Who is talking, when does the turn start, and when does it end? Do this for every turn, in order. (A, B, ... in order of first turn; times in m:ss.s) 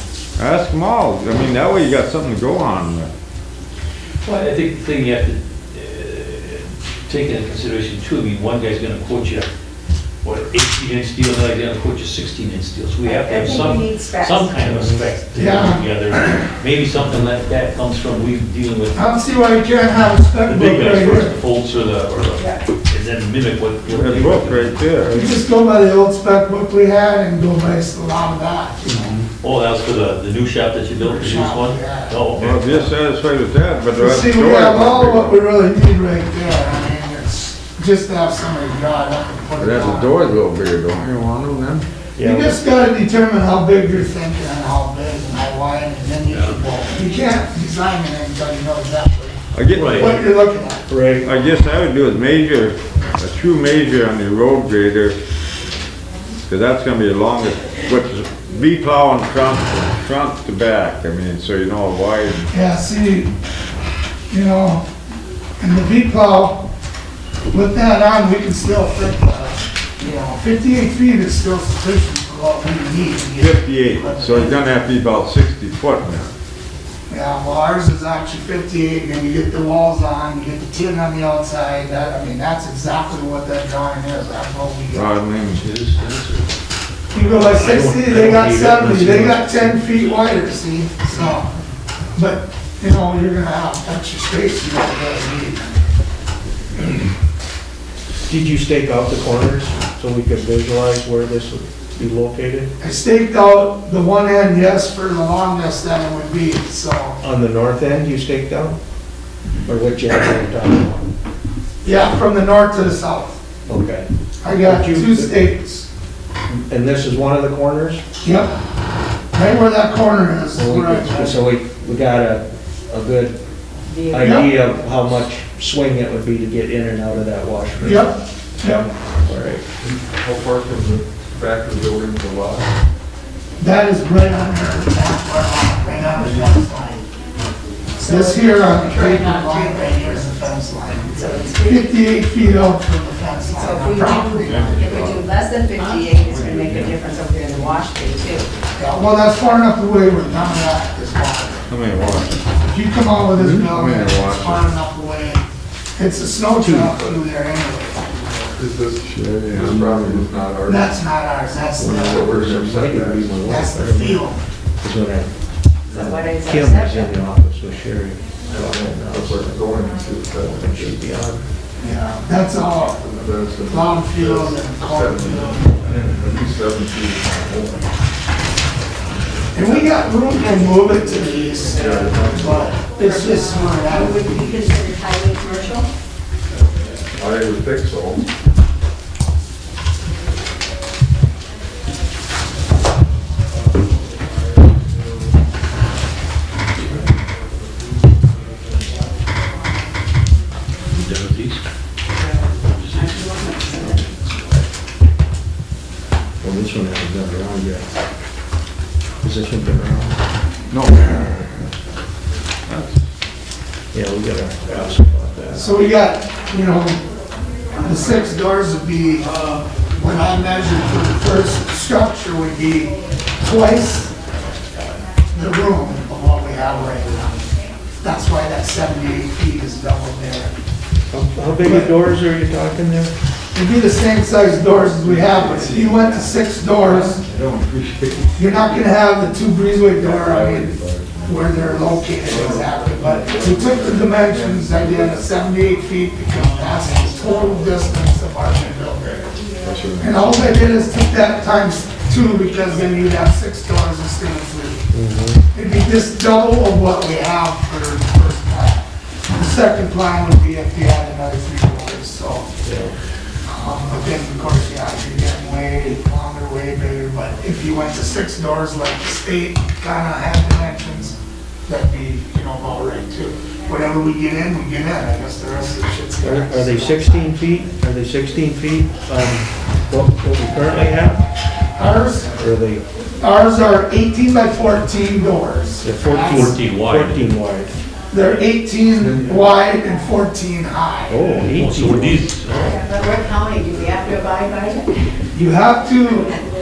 0:00.4-0:03.1 A
0:04.2-0:04.5 B
0:04.2-0:09.5 C
0:10.2-0:19.0 C
0:13.0-0:14.9 D
0:14.8-0:15.1 E
0:15.3-0:16.3 B
0:18.9-0:21.4 B
0:20.4-0:24.8 C
0:22.4-0:22.6 D
0:23.9-0:25.2 A
0:25.0-0:25.4 E
0:25.1-0:29.2 B
0:28.9-0:29.2 E
0:29.2-0:32.9 C
0:31.0-0:32.2 B
0:32.4-0:35.4 A
0:33.9-0:40.1 B
0:39.6-0:41.8 A
0:42.2-0:42.6 E
0:42.2-0:50.9 B
0:46.3-0:46.6 C
0:49.5-0:50.2 A
0:49.7-0:50.2 C
0:50.9-0:51.3 E
0:51.2-0:55.2 A
0:56.5-1:02.5 A
1:02.5-1:03.3 B
1:04.3-1:04.8 B
1:05.6-1:06.7 B
1:07.5-1:14.7 B
1:13.4-1:16.3 A
1:17.1-1:25.2 B
1:24.9-1:25.6 A
1:25.5-1:26.5 C
1:27.1-1:31.5 B
1:27.4-1:29.8 E
1:32.2-1:35.7 B
1:38.3-1:42.7 E
1:42.8-1:47.2 B
1:47.2-1:48.8 E
1:49.7-1:51.1 E
1:51.8-1:53.4 B
1:53.7-1:55.4 E
1:54.4-1:55.9 B
1:56.5-1:58.0 E
1:58.2-1:58.5 B
1:59.3-2:01.4 B
2:00.5-2:03.4 E
2:03.9-2:04.9 D
2:04.1-2:09.6 E
2:04.2-2:04.5 B
2:07.8-2:08.9 B
2:09.8-2:12.7 F
2:13.6-2:17.0 B
2:18.0-2:20.4 D
2:18.0-2:25.2 B
2:20.9-2:22.0 D
2:23.5-2:28.5 D
2:24.4-2:25.3 A
2:26.2-2:26.9 A
2:28.7-2:31.7 B
2:31.7-2:32.3 A
2:32.6-2:38.0 B
2:33.3-2:33.7 E
2:33.6-2:34.7 A
2:36.6-2:37.0 E
2:38.6-2:40.9 F
2:39.0-2:40.3 A
2:40.6-2:42.4 B
2:41.8-2:44.3 E
2:41.8-2:43.4 F
2:43.4-2:44.4 B
2:44.8-2:45.3 E
2:45.9-2:46.2 F
2:45.9-2:49.8 E
2:45.9-2:47.2 D
2:48.5-2:51.0 F
2:50.4-2:51.4 E
2:51.8-2:53.0 B
2:52.9-2:57.8 F
2:53.7-2:55.8 B
2:59.5-3:04.4 B
2:59.6-3:00.2 F
3:01.7-3:02.8 F
3:03.0-3:05.9 D
3:07.1-3:08.2 F
3:20.9-3:21.6 C
3:22.2-3:24.4 D
3:22.7-3:23.2 C
3:26.4-3:27.9 E
3:29.2-3:30.2 E
3:30.7-3:31.5 A
3:32.7-3:33.0 A
3:33.9-3:35.8 E
3:35.5-3:37.0 B
3:37.8-3:39.3 B
3:40.0-3:44.1 B
3:45.3-3:47.4 B
3:48.0-3:50.5 B
3:51.1-3:53.1 E
3:51.6-3:51.9 B
3:53.5-3:57.2 B
3:55.0-3:58.8 A
3:58.4-4:09.2 B
4:00.1-4:01.2 A
4:02.1-4:05.2 F
4:09.6-4:10.5 F
4:10.0-4:14.9 B
4:14.9-4:15.4 E
4:15.5-4:18.8 B
4:19.4-4:22.5 B
4:22.6-4:22.9 E
4:23.5-4:31.2 B
4:31.7-4:37.3 B
4:36.2-4:41.2 E
4:41.8-4:42.4 B
4:42.4-4:42.8 E
4:43.2-4:46.6 B
4:45.8-4:47.7 E
4:46.2-4:47.3 C
4:48.1-4:51.2 B
4:49.0-4:49.5 F
4:51.1-4:52.2 E
4:51.5-4:52.8 C
4:52.6-4:54.9 D
4:55.3-4:56.4 B